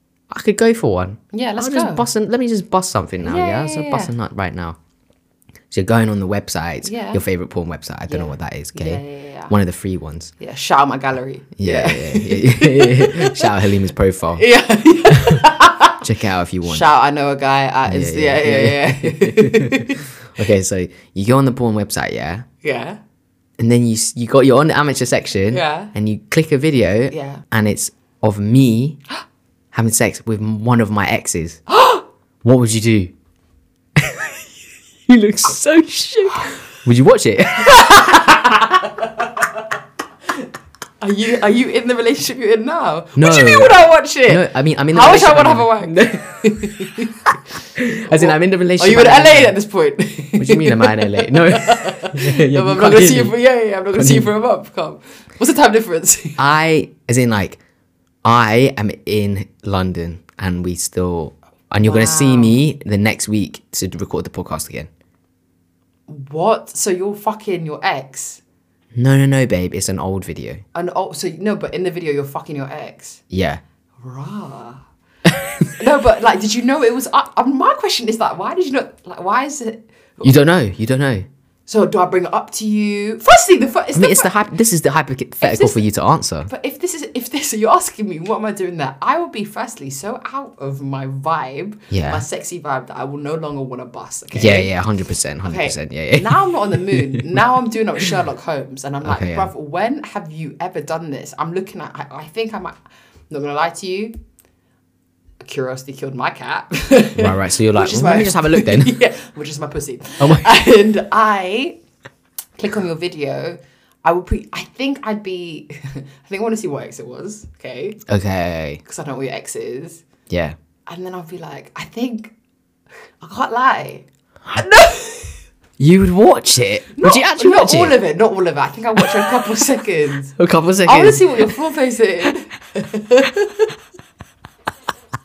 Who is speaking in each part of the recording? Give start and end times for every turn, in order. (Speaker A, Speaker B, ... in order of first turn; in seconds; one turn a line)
Speaker A: 0.3-4.8
Speaker B: 1.3-2.0
Speaker B: 3.2-4.1
Speaker A: 5.7-10.3
Speaker B: 6.8-7.2
Speaker B: 8.1-9.5
Speaker B: 10.4-13.7
Speaker A: 11.6-14.4
Speaker B: 14.3-16.0
Speaker A: 15.1-15.5
Speaker A: 16.0-16.9
Speaker B: 16.6-20.1
Speaker A: 17.9-22.4
Speaker B: 22.6-23.0
Speaker A: 23.6-29.0
Speaker B: 25.5-25.9
Speaker B: 27.1-27.4
Speaker A: 29.7-31.6
Speaker B: 31.7-32.0
Speaker A: 32.4-33.1
Speaker A: 34.0-34.3
Speaker A: 35.1-38.7
Speaker B: 37.6-39.4
Speaker B: 41.0-47.3
Speaker A: 43.1-43.7
Speaker A: 44.3-46.9
Speaker A: 47.8-49.5
Speaker B: 48.0-56.4
Speaker A: 50.4-53.3
Speaker A: 53.9-54.3
Speaker A: 56.4-57.6
Speaker A: 58.2-64.9
Speaker B: 61.8-62.6
Speaker B: 66.1-68.4
Speaker A: 68.9-70.6
Speaker B: 70.7-73.2
Speaker A: 73.3-73.6
Speaker B: 74.0-74.8
Speaker A: 75.3-75.6
Speaker B: 75.8-80.4
Speaker A: 80.2-81.3
Speaker B: 81.7-84.3
Speaker A: 83.9-86.5
Speaker B: 85.4-85.8
Speaker B: 86.5-94.7
Speaker A: 91.9-92.2
Speaker A: 94.3-97.4
Speaker B: 95.4-102.8
Speaker A: 99.0-99.5
Speaker B: 103.3-104.1
Speaker B: 105.4-111.8
Speaker A: 107.2-109.0
Speaker A: 110.2-110.5
Speaker B: 112.6-118.0
Speaker A: 118.1-118.8
Speaker B: 118.8-120.0
Speaker A: 120.3-120.5
Speaker B: 120.9-122.3
Speaker B: 123.2-125.3
Speaker A: 125.8-128.0
Speaker B: 126.9-130.3
Speaker A: 129.0-129.4
Speaker A: 130.4-131.5
Speaker B: 130.8-133.7